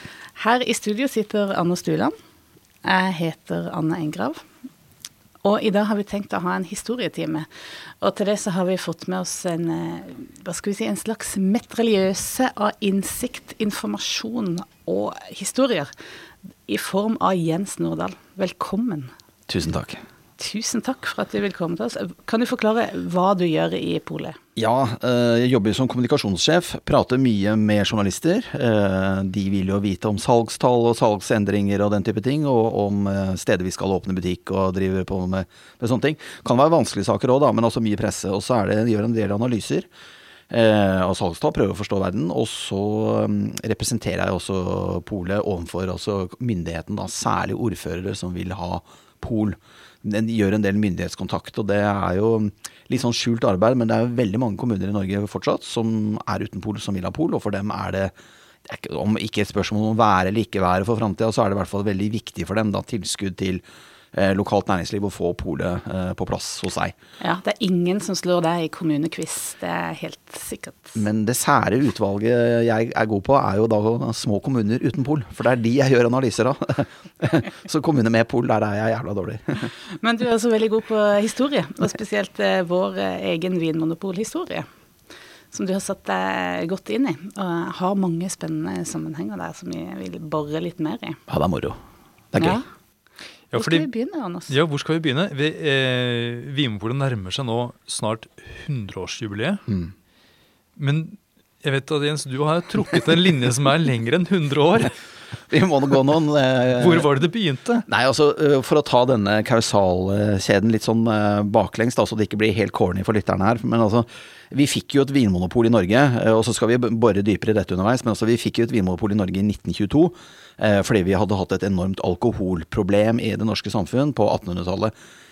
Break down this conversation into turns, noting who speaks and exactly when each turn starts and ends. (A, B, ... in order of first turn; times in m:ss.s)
0:00.4-0:02.1 A
0:02.8-0:04.4 A
0:05.4-0:07.5 A
0:08.0-0:15.9 A
0:16.7-0:19.1 A
0:19.5-0:20.0 B
0:20.4-0:24.4 A
0:24.6-0:39.9 B
0:40.5-0:58.1 B
0:58.6-1:03.6 B
1:04.1-1:07.0 B
1:07.2-1:11.0 A
1:11.0-1:19.7 B
1:20.0-1:24.7 A
1:25.5-1:31.2 A
1:31.3-1:31.8 B
1:32.3-1:32.6 B
1:32.4-1:32.6 A
1:33.5-1:33.9 C
1:33.6-1:34.5 A
1:34.5-1:39.6 C
1:40.8-1:45.0 C
1:45.5-1:47.1 B
1:46.8-1:47.8 C
1:47.9-2:04.9 B